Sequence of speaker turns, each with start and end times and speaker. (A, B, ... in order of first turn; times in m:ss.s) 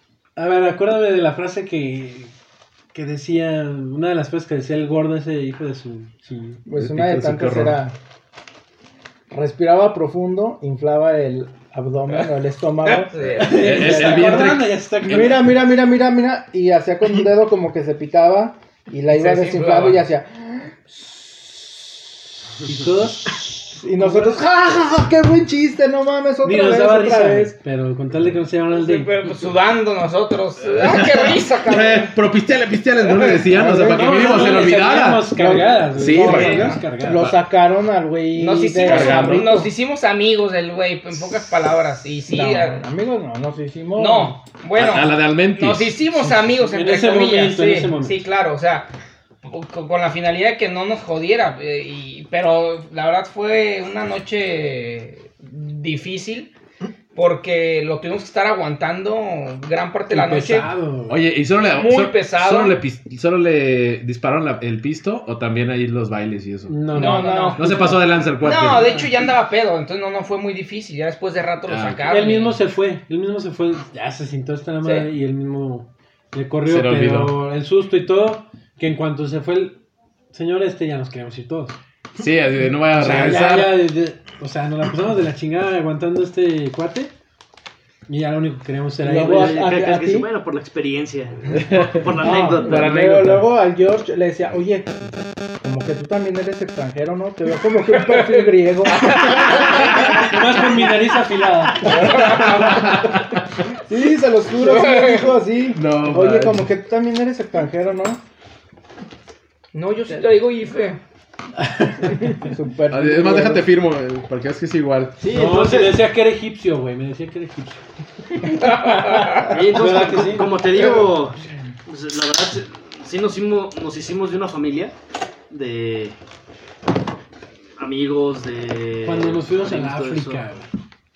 0:00.4-0:02.3 A
0:02.9-0:06.6 A
0:06.6-0:07.9 B
0:06.8-0:07.8 C
0:09.3-0:21.9 B
0:12.9-0:13.6 D
0:13.2-0:15.4 C
0:13.4-0:15.6 A
0:19.1-0:20.0 D
0:22.7-0:24.4 A
0:23.3-0:27.6 B
0:26.4-0:29.1 A
0:28.7-0:32.2 D
0:30.7-0:37.4 C
0:33.0-0:33.4 D
0:33.5-0:34.7 B
0:33.8-0:37.3 A
0:35.4-0:39.7 B
0:36.2-0:36.8 D
0:38.3-0:42.8 D
0:38.8-0:39.5 C
0:42.3-0:44.4 B
0:44.0-0:48.9 D
0:44.8-0:46.0 C
0:46.1-0:48.2 A
0:49.4-0:56.5 D
0:57.1-1:00.7 D
1:00.1-1:01.2 A
1:01.1-1:06.8 C
1:01.6-1:02.8 D
1:06.7-1:08.0 A
1:06.9-1:07.9 B
1:06.9-1:07.6 D
1:07.6-1:09.0 C
1:08.4-1:12.6 D
1:11.7-1:12.0 C
1:12.1-1:19.8 A
1:14.8-1:15.1 D
1:16.6-1:17.3 C
1:20.3-1:21.8 A
1:22.2-1:23.8 C
1:22.9-1:27.1 A
1:28.1-1:29.6 A
1:29.0-1:30.3 B
1:29.2-1:33.0 E
1:32.2-1:35.1 B
1:32.6-1:33.5 C
1:35.6-1:40.3 B
1:38.1-1:38.4 D
1:39.0-1:40.1 D
1:39.9-1:42.0 A
1:41.8-1:43.2 D
1:42.3-1:43.3 C
1:43.8-1:48.2 B
1:44.6-1:45.3 D
1:45.8-1:46.7 C
1:49.7-1:51.0 D
1:51.8-1:52.3 A
1:52.3-1:53.7 B
1:52.9-1:55.2 C
1:55.2-1:55.9 B
1:55.3-1:57.8 A
1:58.4-1:59.5 D
1:59.5-2:04.9 E
1:59.7-2:00.6 A
2:05.5-2:06.2 E
2:07.8-2:10.4 E
2:09.0-2:10.6 A